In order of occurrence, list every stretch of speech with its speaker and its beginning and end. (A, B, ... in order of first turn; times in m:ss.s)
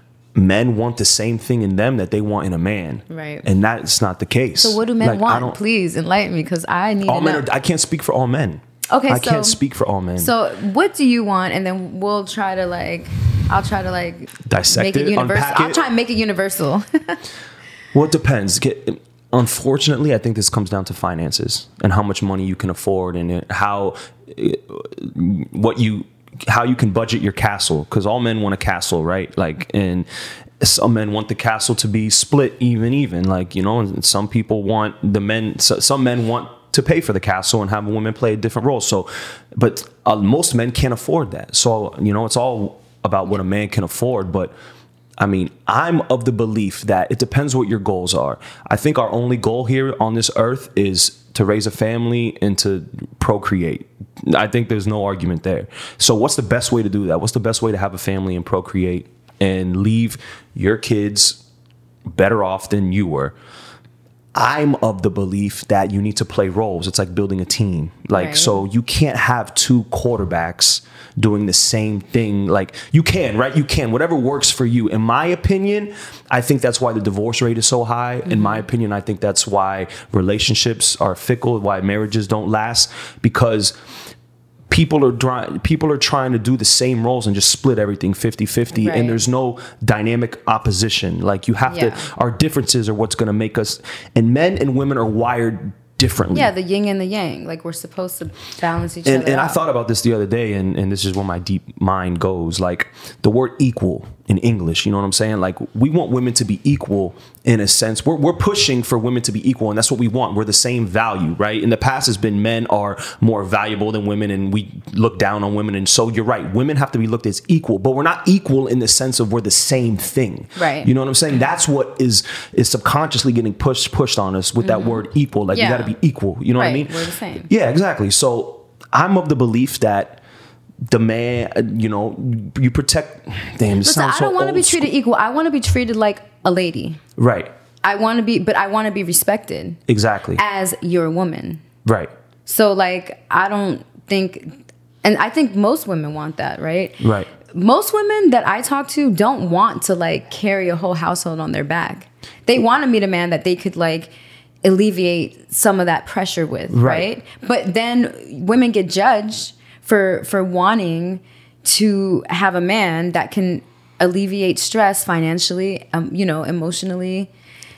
0:00.4-0:05.6 A
0:03.1-0:03.5 B
0:04.6-0:07.4 B
0:07.1-0:10.3 A
0:08.9-0:09.6 B
0:10.2-0:17.2 B
0:14.5-0:15.8 A
0:17.9-0:30.1 A
0:30.6-0:44.5 A
0:45.2-1:01.4 A
1:02.1-1:03.4 A
1:04.3-1:23.7 A
1:08.1-1:08.6 B
1:18.3-1:18.6 B
1:24.7-1:36.5 A
1:28.7-1:29.2 B
1:31.7-1:32.1 B
1:36.3-1:39.6 B
1:39.0-2:06.9 A
2:00.6-2:00.9 B
2:04.6-2:06.0 B
2:06.6-2:07.5 B
2:07.5-2:10.2 A
2:10.9-2:14.9 A
2:13.8-2:17.0 B
2:17.2-2:17.5 A
2:17.8-2:19.8 B
2:19.9-2:20.4 A
2:20.4-2:21.6 B
2:21.8-2:22.1 A
2:22.5-2:34.1 B
2:27.0-2:27.3 A
2:34.6-2:47.3 B
2:36.7-2:37.1 A